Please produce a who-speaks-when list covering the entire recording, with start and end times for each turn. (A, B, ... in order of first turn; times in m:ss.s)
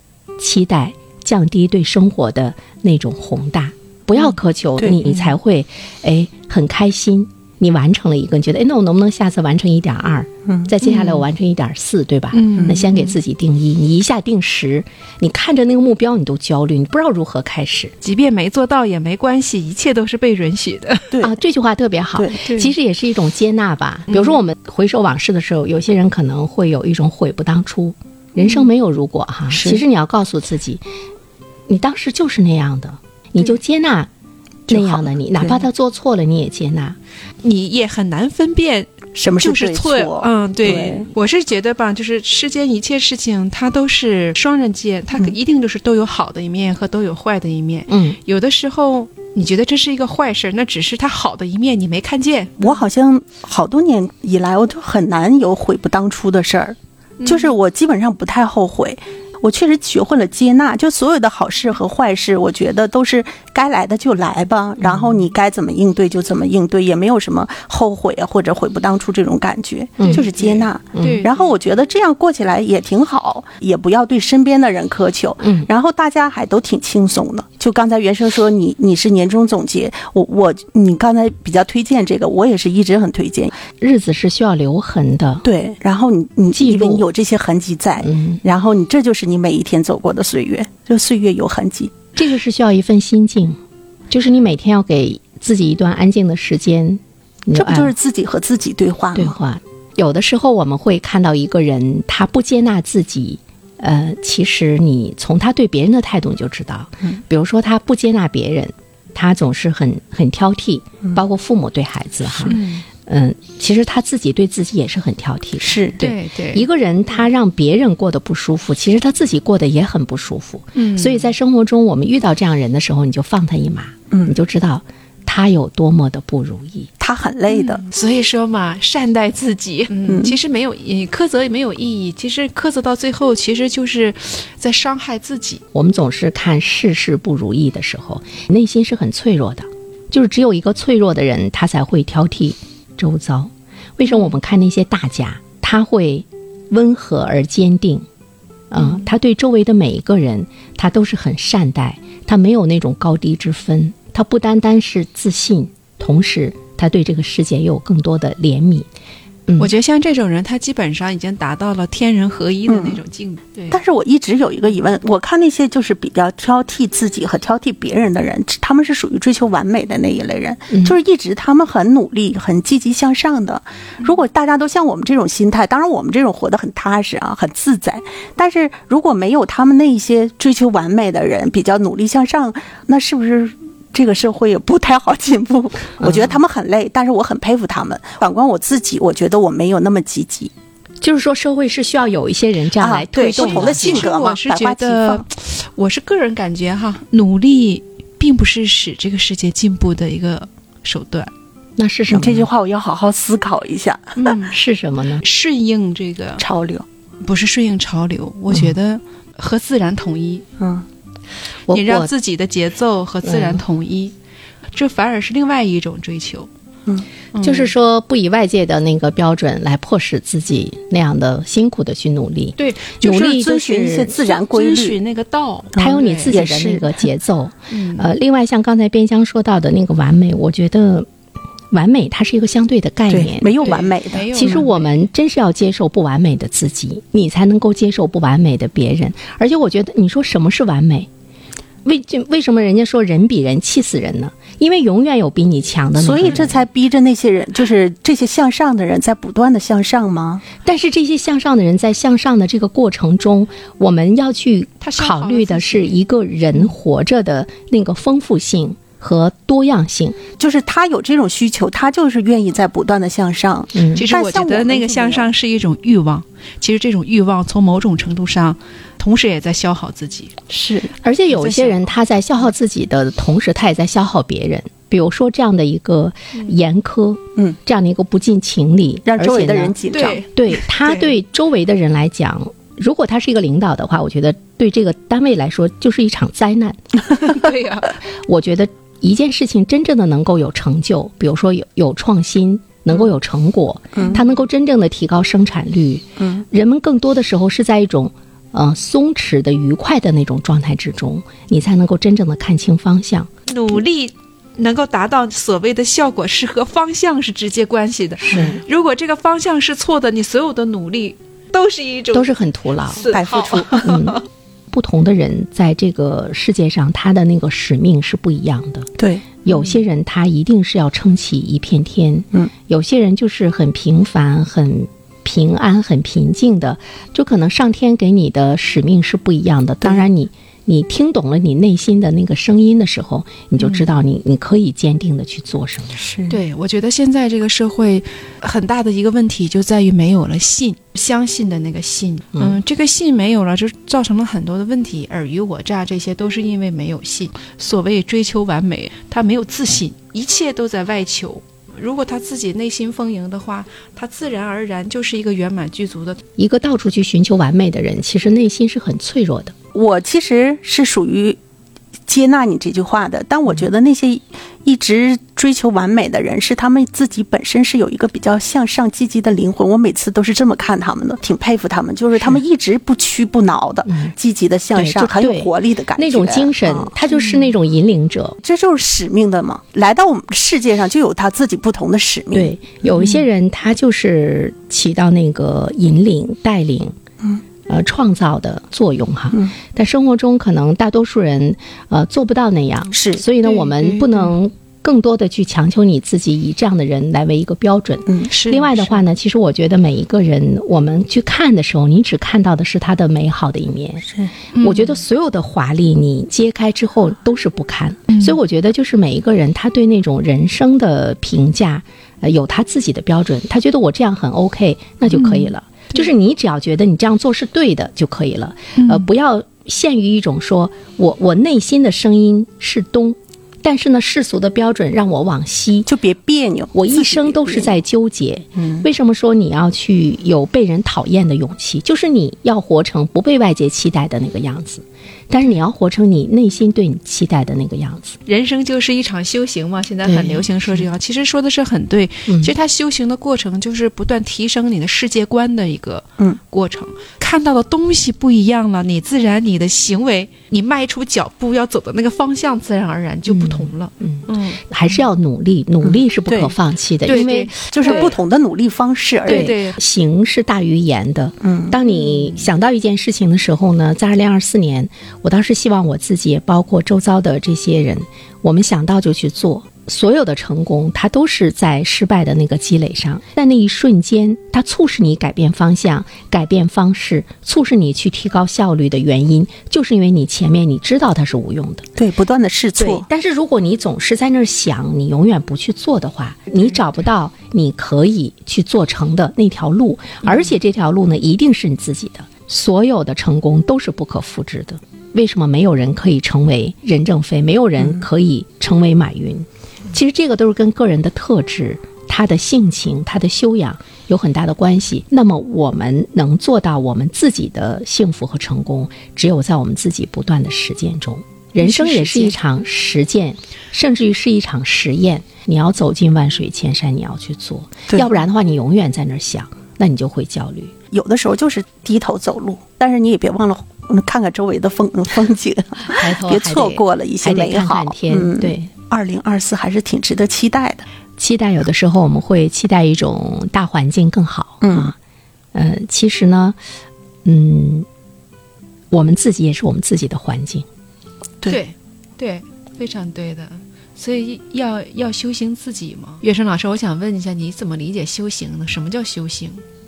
0:00.4-0:17.9 A
0:10.8-0:11.2 B
0:12.3-0:13.1 B
0:18.0-0:21.2 B
0:21.2-0:30.8 A
0:22.2-0:22.5 C
0:29.5-0:29.8 C
0:31.7-0:34.1 A
0:34.7-0:35.6 C
0:34.7-0:37.0 A
0:37.4-0:52.7 B
0:39.1-0:41.1 C
0:47.9-0:48.2 A
0:52.6-1:23.5 C
0:57.2-0:57.5 B
1:10.0-1:10.2 A
1:10.0-1:11.4 B
1:10.9-1:11.2 A
1:15.4-1:15.7 A
1:23.8-1:25.4 A
1:25.4-1:31.9 C
1:26.5-1:27.0 A
1:28.0-1:28.4 A
1:32.1-1:33.6 A
1:34.1-1:37.9 A
1:37.5-1:39.3 C
1:39.1-2:06.9 A
1:52.5-1:52.8 B
1:55.6-1:56.0 C
1:56.0-1:56.6 B
2:00.8-2:01.3 B
2:04.1-2:04.4 C
2:07.0-2:07.8 C
2:07.5-2:15.6 B
2:10.1-2:10.4 C
2:15.7-2:28.0 A
2:28.7-2:38.9 A
2:39.6-2:43.8 B
2:42.7-2:43.0 C
2:43.7-3:10.5 C
2:50.7-2:51.0 A
3:06.0-3:06.3 A
3:11.0-3:14.1 A
3:12.8-3:15.2 C
3:13.3-3:21.3 B
3:21.8-3:22.5 A
3:22.1-3:24.2 C
3:24.1-3:24.6 B
3:24.5-3:25.2 A
3:25.2-3:26.4 B
3:26.4-3:26.8 C
3:27.2-3:30.4 B
3:30.6-3:30.8 C
3:31.7-3:32.1 A
3:31.7-3:34.1 B
3:33.2-3:33.6 A
3:34.7-3:36.5 B
3:37.3-3:37.7 B
3:37.4-3:44.1 A
3:42.6-3:43.0 B
3:43.0-3:45.0 C
3:44.2-3:46.4 B
3:45.7-3:47.0 C
3:45.8-3:51.1 A
3:47.7-3:48.1 B
3:51.7-3:53.7 A
3:53.1-3:54.6 C
3:53.6-3:54.9 B
3:54.3-4:01.1 A
4:01.8-4:06.6 A
4:06.0-4:10.5 C
4:10.6-4:20.2 A
4:14.8-4:16.0 B
4:20.4-4:25.3 C
4:23.7-4:24.0 A
4:23.9-4:30.3 B
4:30.5-4:30.9 C
4:31.0-4:39.8 A
4:31.3-4:31.9 B
4:39.0-4:40.2 C
4:39.9-4:41.1 B
4:40.3-4:47.3 A
4:47.2-4:47.9 B
4:48.2-5:03.3 A
5:03.5-5:12.3 B
5:08.3-5:08.6 C
5:12.1-5:13.1 A
5:12.8-5:14.2 B
5:13.1-5:14.0 C
5:13.8-5:14.2 A
5:14.7-5:18.9 A
5:19.0-5:19.2 C
5:19.4-5:36.0 A
5:36.0-5:36.4 C
5:36.3-5:56.2 B
5:56.4-5:59.5 A
5:59.7-6:01.4 C
6:02.1-6:16.9 C
6:13.8-6:14.1 A
6:14.7-6:18.4 A
6:17.1-6:17.5 B
6:18.4-6:22.5 C
6:22.3-6:27.0 A
6:27.7-6:44.1 A
6:32.9-6:33.2 C
6:33.4-6:34.2 B
6:38.3-6:39.0 B
6:44.5-6:45.0 B
6:44.6-7:05.9 A
6:55.1-6:55.5 B
6:58.7-6:59.0 B
7:05.8-7:07.7 C
7:06.7-7:18.2 A
7:08.6-7:08.9 C
7:18.2-7:34.6 B
7:20.0-7:20.9 A
7:33.2-7:38.1 A
7:35.8-7:36.5 C
7:37.0-7:38.1 B
7:37.6-7:39.6 C
7:39.2-7:39.8 B
7:39.2-8:01.9 A
7:41.4-7:41.8 C
7:42.1-7:42.4 B
8:02.0-8:03.0 C
8:02.8-8:40.7 A
8:31.6-8:32.3 C
8:40.9-8:50.8 C
8:45.8-8:48.7 A
8:51.2-8:54.9 A
8:54.6-8:54.9 C
8:55.5-8:56.6 A
8:57.2-8:57.9 A
8:58.9-9:00.6 A
9:01.5-9:09.6 B